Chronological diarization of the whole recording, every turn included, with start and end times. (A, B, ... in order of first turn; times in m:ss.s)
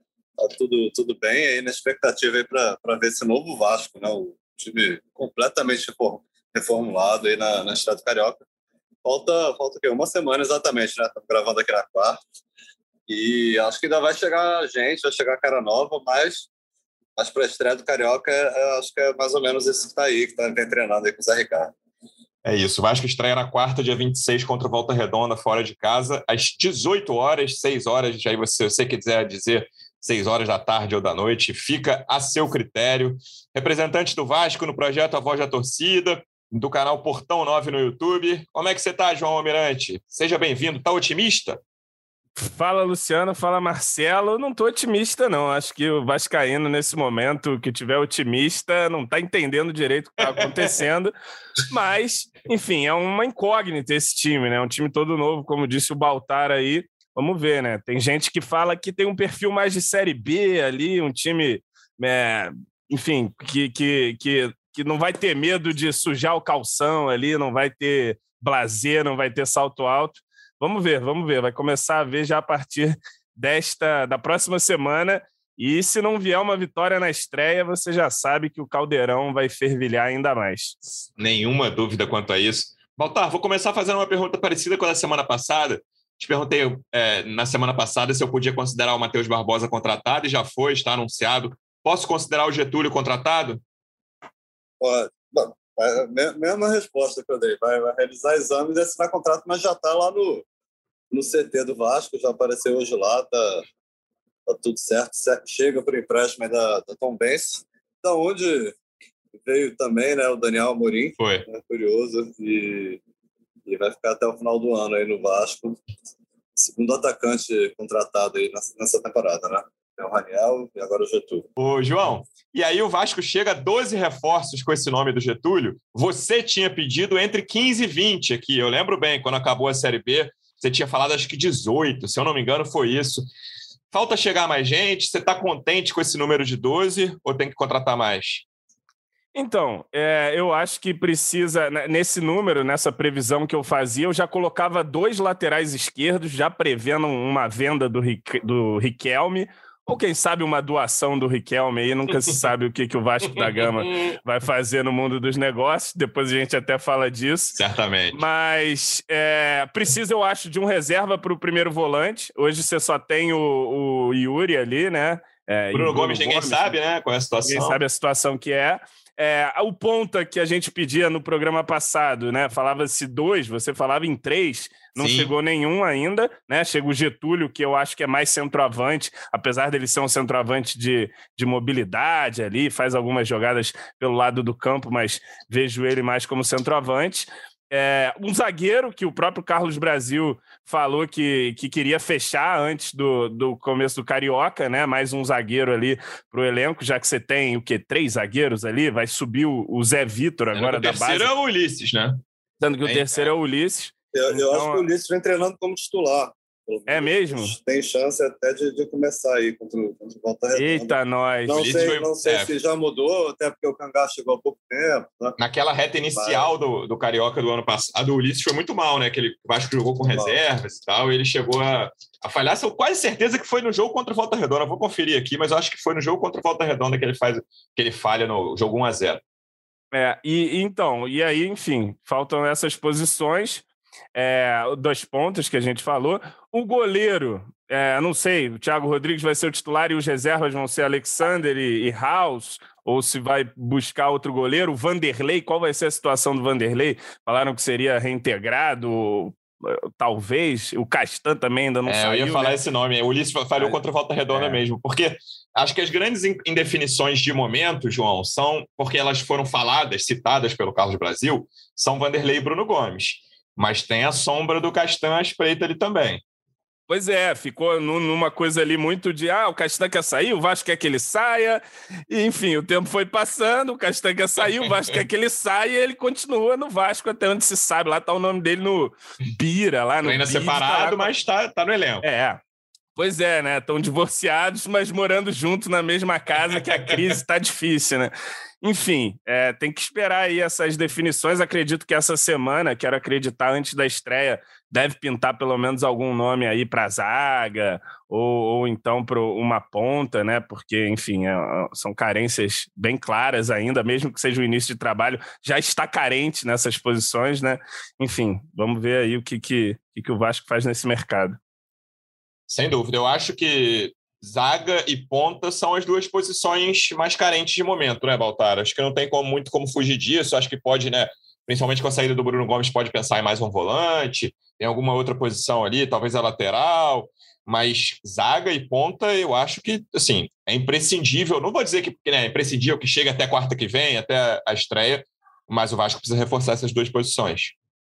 0:00.4-0:08.4 A
0:09.0-0:12.2 A
0:13.1-0:16.5 A
0:17.2-0:21.7 A
0:22.4-0:41.6 B
0:42.4-0:51.1 C
0:50.2-0:50.7 B
0:51.7-1:20.8 C
1:21.2-1:33.6 B
1:34.8-1:40.4 A
1:41.1-1:43.6 A
1:44.4-1:48.8 A
1:49.4-1:53.0 A
1:51.2-1:51.5 B
1:53.6-1:55.8 A
1:56.6-2:01.5 A
2:01.6-2:13.3 B
2:13.9-2:18.4 B
2:19.3-2:37.6 C
2:33.4-2:34.1 B
2:37.6-2:38.2 B
2:38.1-2:46.7 C
2:45.7-2:47.8 B
2:47.4-3:21.3 C
2:55.0-2:55.3 B
3:20.5-3:22.2 B
3:22.6-3:24.9 C
3:22.8-3:23.3 B
3:24.1-3:30.9 A
3:26.9-3:27.6 C
3:30.5-3:31.9 C
3:31.4-3:35.4 A
3:31.5-3:32.5 B
3:35.4-3:49.2 B
3:36.1-3:36.5 A
3:40.1-3:40.4 A
3:49.9-4:12.6 C
4:11.8-4:26.2 B
4:14.3-4:14.6 C
4:26.9-4:41.1 C
4:34.6-4:35.0 B
4:40.0-4:42.0 B
4:42.0-4:42.4 C
4:43.0-5:11.4 C
4:46.6-4:47.2 B
5:12.5-5:37.5 B